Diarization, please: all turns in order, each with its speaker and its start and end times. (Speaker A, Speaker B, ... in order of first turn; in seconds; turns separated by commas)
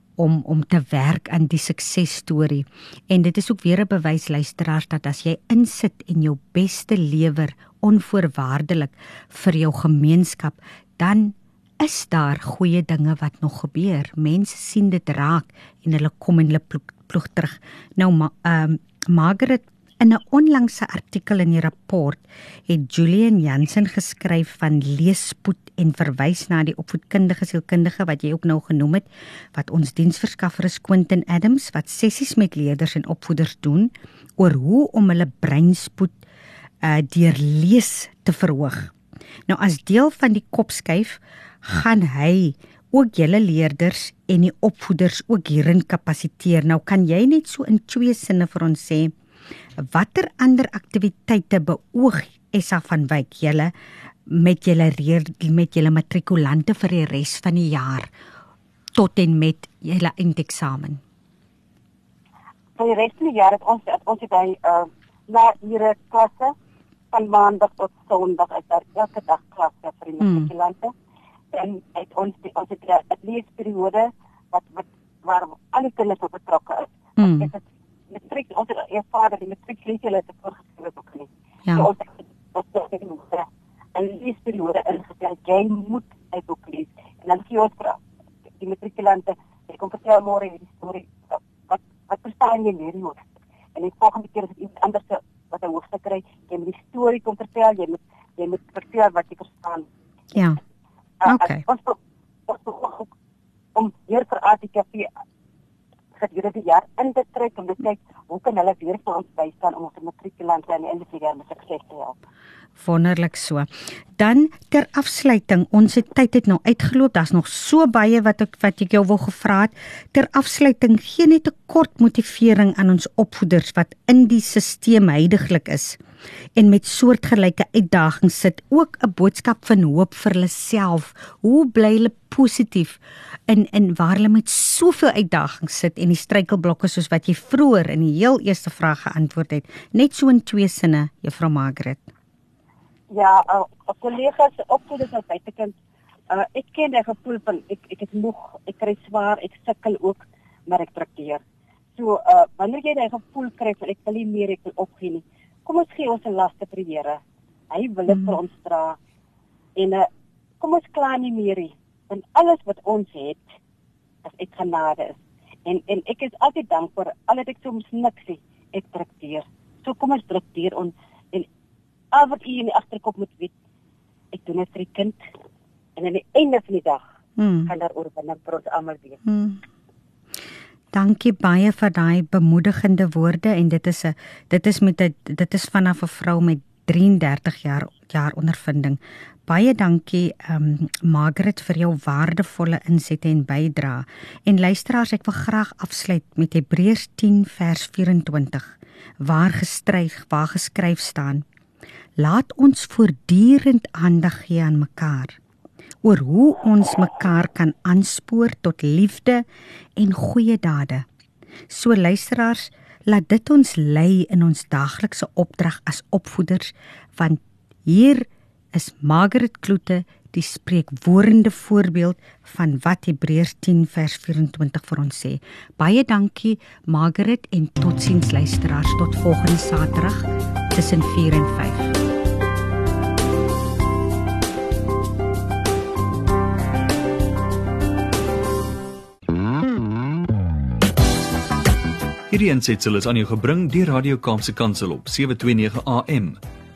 Speaker A: 0.2-36.2, Speaker A: 36.8-38.9, Speaker A: 39.5-49.1, Speaker A: 49.8-53.7, Speaker A: 54.3-58.1, Speaker A: 59.0-61.0, Speaker B: 62.8-66.5, Speaker B: 67.1-70.9, Speaker A: 70.2-70.5, Speaker B: 71.5-88.0, Speaker A: 77.2-77.5, Speaker B: 88.6-99.9, Speaker A: 100.3-100.6, Speaker B: 101.2-103.1, Speaker A: 101.2-101.6, Speaker B: 103.7-105.1, Speaker B: 106.2-112.2, Speaker A: 112.8-126.0, Speaker A: 126.5-142.1, Speaker B: 143.1-145.7, Speaker B: 146.3-151.4, Speaker B: 151.9-157.2, Speaker B: 157.7-159.0, Speaker B: 159.8-160.1, Speaker B: 160.6-163.5, Speaker B: 164.2-171.5, Speaker B: 172.1-173.5, Speaker B: 174.3-175.2, Speaker B: 176.0-177.0, Speaker A: 177.4-177.7, Speaker B: 177.7-179.2, Speaker A: 179.2-179.6, Speaker A: 180.9-201.4, Speaker A: 202.2-205.4, Speaker A: 206.0-209.4, Speaker A: 210.0-211.1, Speaker A: 211.7-231.9, Speaker C: 242.3-246.4